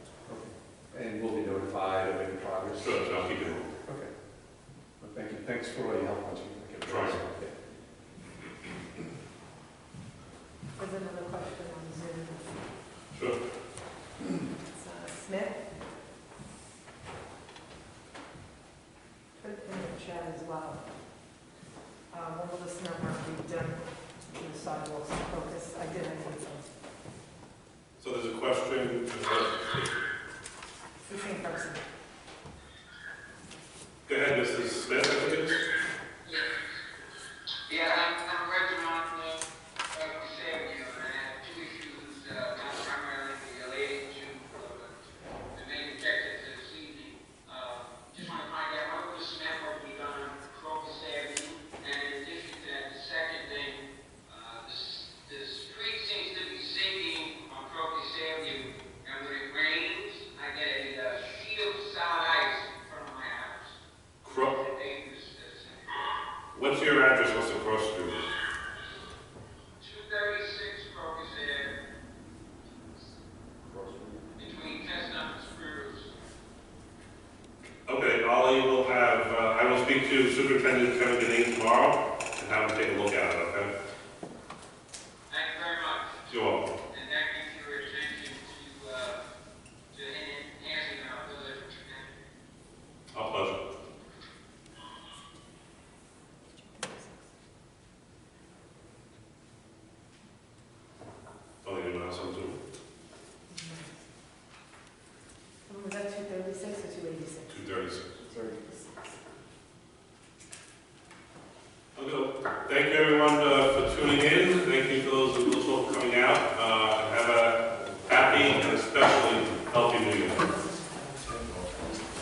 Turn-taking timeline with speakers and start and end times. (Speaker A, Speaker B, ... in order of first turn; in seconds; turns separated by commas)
Speaker A: 0.3-3.2, Speaker B: 2.8-3.7, Speaker A: 3.8-4.1, Speaker A: 5.0-7.5, Speaker B: 6.8-7.2, Speaker C: 10.8-12.6, Speaker B: 13.1-13.4, Speaker C: 14.7-15.8, Speaker C: 19.4-20.9, Speaker C: 22.1-26.7, Speaker B: 28.0-29.8, Speaker C: 31.1-31.8, Speaker B: 34.0-35.6, Speaker D: 37.7-44.9, Speaker D: 45.5-66.2, Speaker B: 64.2-64.5, Speaker B: 66.5-68.2, Speaker D: 69.8-71.8, Speaker A: 73.6-74.2, Speaker D: 74.4-76.1, Speaker B: 77.8-83.7, Speaker D: 85.3-86.2, Speaker B: 86.3-86.7, Speaker D: 86.9-89.2, Speaker D: 89.9-92.2, Speaker B: 93.1-93.6, Speaker B: 101.6-102.6, Speaker C: 103.5-103.9, Speaker C: 105.7-109.1, Speaker B: 107.5-108.1, Speaker B: 111.9-120.4, Speaker A: 117.7-118.6, Speaker C: 120.4-121.2, Speaker A: 121.2-121.8